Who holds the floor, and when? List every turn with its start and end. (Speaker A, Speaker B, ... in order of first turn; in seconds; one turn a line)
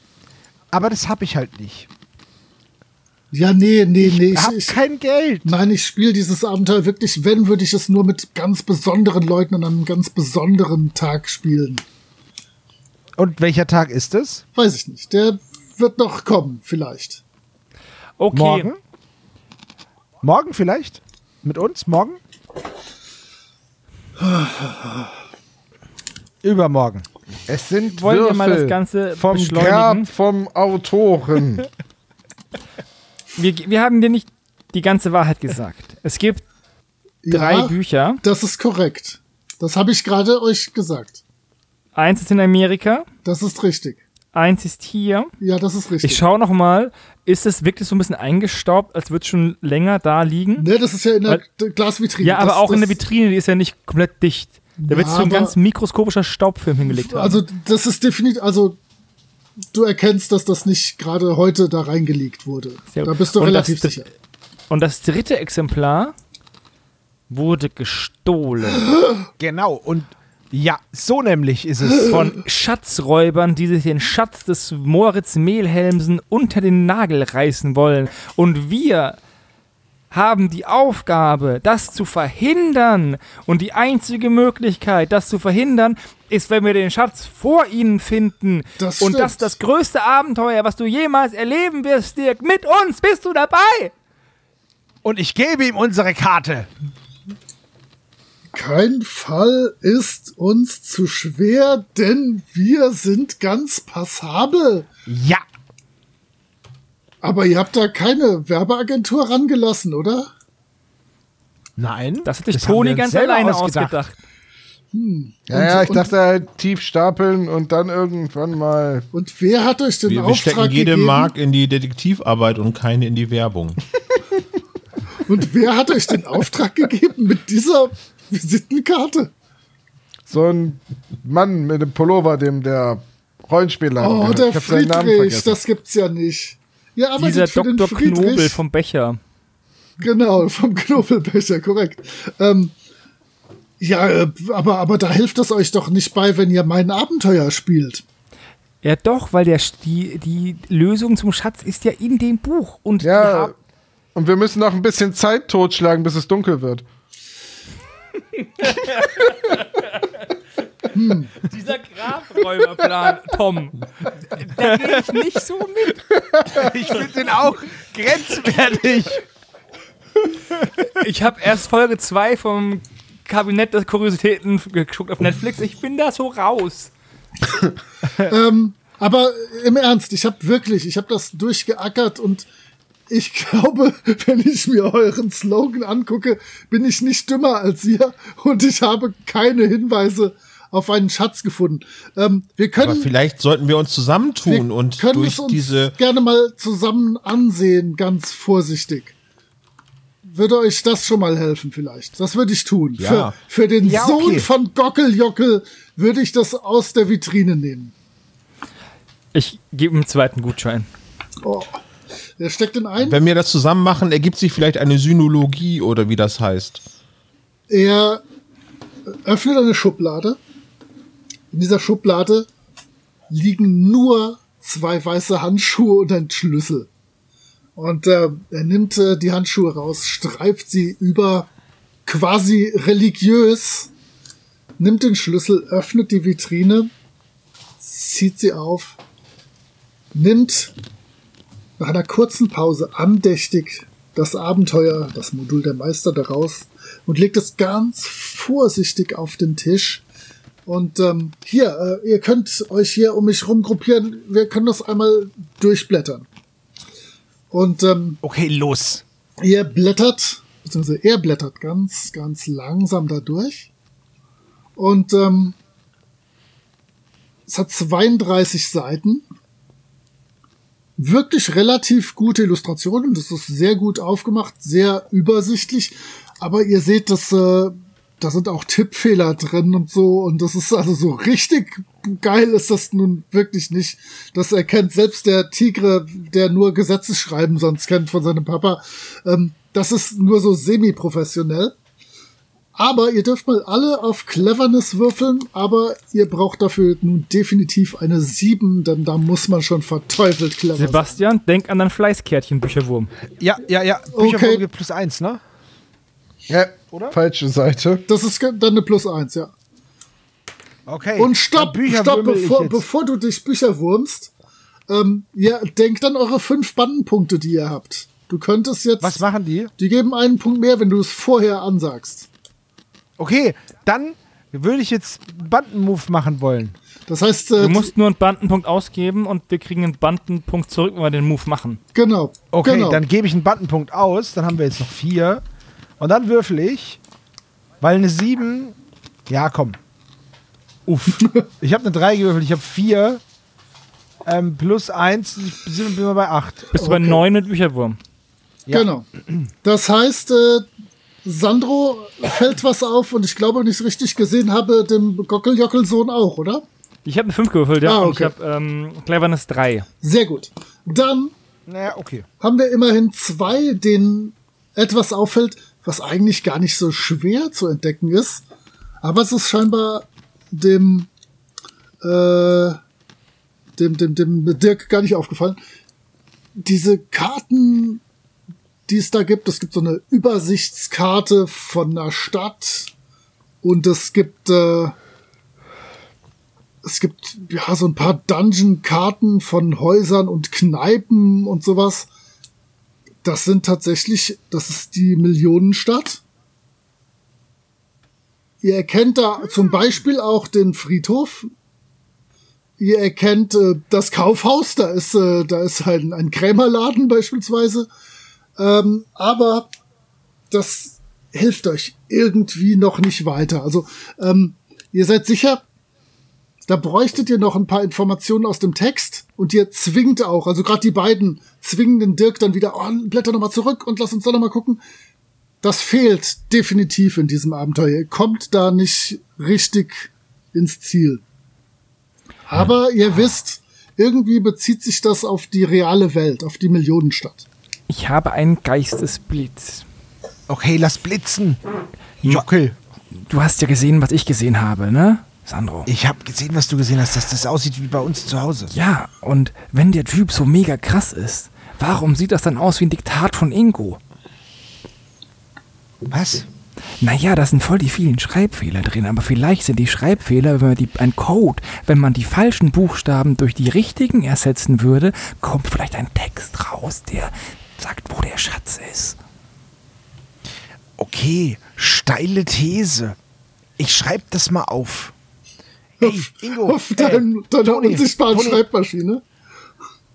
Speaker A: 0.7-1.9
Speaker B: 3.3-4.8
Speaker A: 4.0-5.5
Speaker B: 5.4-11.8
Speaker A: 13.2-14.4
Speaker B: 14.5-17.2
Speaker C: 18.2-18.7
Speaker A: 18.3-18.8
Speaker A: 20.2-22.2
Speaker B: 24.2-25.1
Speaker A: 26.4-27.1
Speaker D: 27.5-31.7
Speaker C: 27.9-30.1
Speaker C: 33.3-36.4
Speaker B: 37.2-41.2
Speaker C: 37.3-38.2
Speaker C: 41.9-43.0
Speaker B: 43.2-44.0
Speaker C: 44.3-45.3
Speaker B: 45.4-46.2
Speaker C: 46.0-50.7
Speaker B: 50.6-53.0
Speaker C: 52.2-57.4
Speaker B: 54.8-55.5
Speaker B: 56.8-58.8
Speaker B: 59.7-64.0
Speaker C: 62.9-64.0
Speaker C: 64.7-66.1
Speaker C: 67.3-68.9
Speaker A: 69.4-72.2
Speaker C: 72.0-79.2
Speaker C: 80.1-93.9
Speaker B: 88.8-89.5
Speaker A: 95.0-96.7
Speaker B: 98.5-104.9
Speaker A: 105.1-105.4
Speaker B: 107.2-110.3
Speaker A: 111.8-114.0
Speaker C: 112.2-114.1
Speaker B: 114.9-116.1
Speaker D: 115.5-119.0
Speaker B: 119.1-121.3
Speaker E: 120.1-123.8
Speaker B: 125.2-129.3
Speaker D: 130.3-135.6
Speaker B: 134.0-138.6
Speaker C: 137.2-139.2
Speaker B: 140.0-142.7
Speaker B: 143.8-148.0
Speaker C: 148.8-153.5
Speaker D: 153.0-153.5
Speaker D: 154.1-156.8
Speaker C: 158.6-160.0
Speaker B: 160.9-161.4
Speaker C: 161.4-163.8
Speaker C: 164.3-166.0
Speaker A: 166.5-169.2
Speaker C: 170.8-176.9
Speaker B: 178.2-182.4
Speaker B: 183.1-193.1
Speaker E: 192.8-195.9
Speaker B: 194.4-199.1
Speaker B: 200.2-207.9
Speaker E: 203.0-203.3
Speaker A: 203.1-204.5
Speaker C: 209.3-210.9
Speaker B: 211.4-211.8
Speaker B: 212.4-213.2
Speaker E: 213.0-216.8
Speaker B: 217.7-218.2
Speaker B: 219.2-220.4
Speaker B: 221.5-222.5
Speaker B: 223.3-226.9
Speaker B: 227.8-231.5
Speaker B: 232.1-233.9
Speaker B: 234.8-236.9
Speaker B: 237.8-239.0
Speaker B: 240.1-240.7
Speaker B: 241.8-250.0
Speaker B: 250.7-256.2
Speaker B: 257.5-258.2
Speaker A: 258.2-259.0
Speaker B: 259.4-263.7
Speaker B: 264.8-265.6
Speaker B: 267.5-269.2
Speaker B: 271.0-291.7
Speaker B: 292.8-301.1
Speaker C: 300.8-303.1
Speaker A: 303.4-305.4
Speaker B: 304.1-304.6
Speaker D: 306.5-308.0
Speaker B: 308.1-309.5
Speaker A: 310.9-312.8
Speaker B: 311.2-314.3
Speaker B: 314.9-319.2
Speaker A: 319.0-319.7
Speaker B: 319.8-322.3
Speaker A: 323.2-326.7
Speaker B: 327.1-327.9
Speaker C: 327.6-331.8
Speaker B: 331.9-333.0
Speaker A: 332.5-335.4
Speaker A: 336.0-337.0
Speaker A: 337.8-338.8
Speaker A: 339.3-339.8
Speaker A: 340.9-343.2
Speaker A: 344.2-346.7
Speaker C: 346.7-348.0
Speaker B: 346.8-347.2
Speaker A: 348.7-349.4
Speaker B: 348.7-349.1
Speaker B: 349.6-350.7
Speaker B: 351.2-356.6
Speaker C: 357.0-359.9
Speaker B: 357.8-358.3
Speaker B: 360.0-361.3
Speaker A: 361.7-362.2
Speaker B: 362.4-368.4
Speaker B: 369.0-371.1
Speaker B: 372.0-372.8
Speaker B: 373.8-375.6
Speaker B: 376.6-378.0
Speaker B: 378.9-382.9
Speaker B: 383.6-385.0
Speaker B: 386.8-392.1
Speaker B: 393.2-396.2
Speaker B: 398.6-401.5
Speaker B: 402.8-407.9
Speaker B: 408.6-409.7
Speaker B: 410.5-415.6
Speaker B: 416.7-424.8
Speaker B: 425.6-431.2
Speaker B: 432.5-437.4
Speaker C: 437.9-439.8
Speaker A: 440.5-441.6
Speaker A: 442.2-442.7
Speaker C: 443.1-445.9
Speaker A: 445.9-448.7
Speaker C: 448.7-454.0
Speaker A: 456.1-456.5
Speaker C: 457.0-469.2
Speaker A: 471.0-473.2
Speaker A: 473.8-475.1
Speaker B: 476.0-479.2
Speaker A: 476.0-478.6